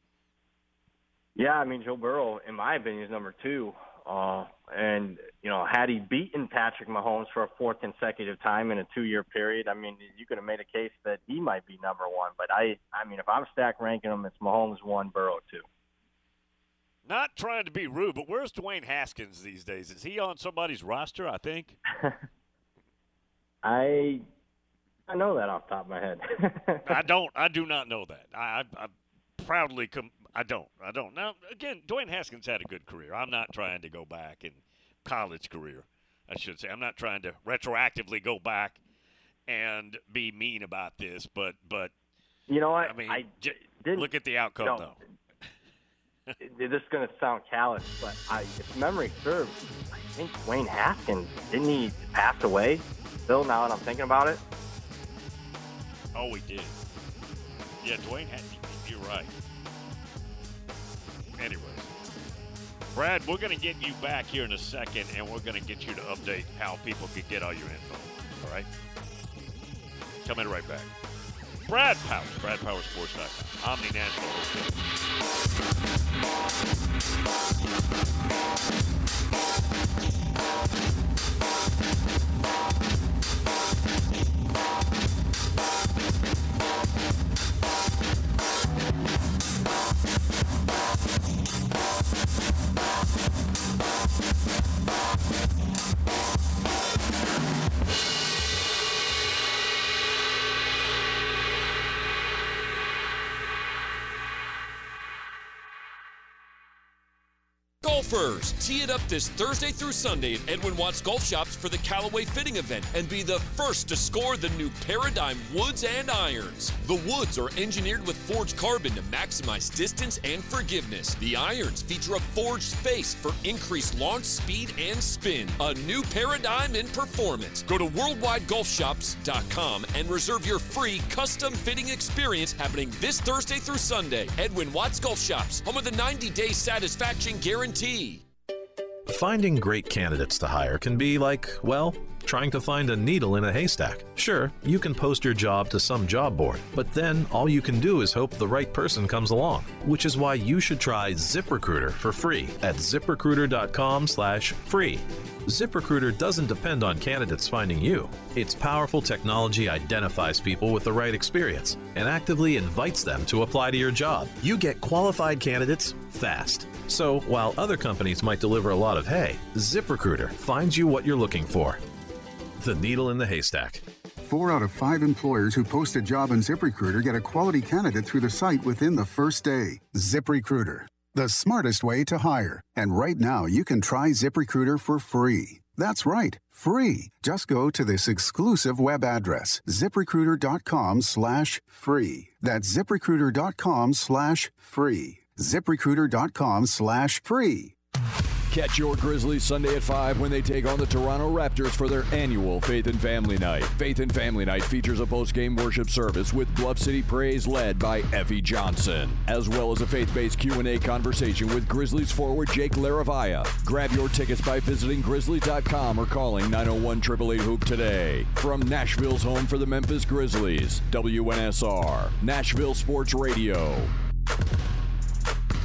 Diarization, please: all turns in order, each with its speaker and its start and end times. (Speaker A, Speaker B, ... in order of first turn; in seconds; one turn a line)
Speaker A: 1.4-15.7
Speaker B: 17.1-21.8
Speaker A: 23.6-24.2
Speaker A: 25.1-26.9
Speaker B: 26.9-38.8
Speaker B: 39.5-41.9
Speaker A: 42.5-44.1
Speaker B: 42.8-43.3
Speaker B: 43.9-45.0
Speaker A: 46.4-54.4
Speaker B: 56.1-56.8
Speaker B: 57.8-59.3
Speaker B: 61.4-61.9
Speaker B: 62.9-68.7
Speaker B: 70.2-70.9
Speaker B: 71.7-74.8
Speaker C: 107.8-138.2
Speaker D: 139.1-171.8
Speaker D: 172.6-173.8
Speaker E: 174.2-197.8
Speaker F: 198.5-223.9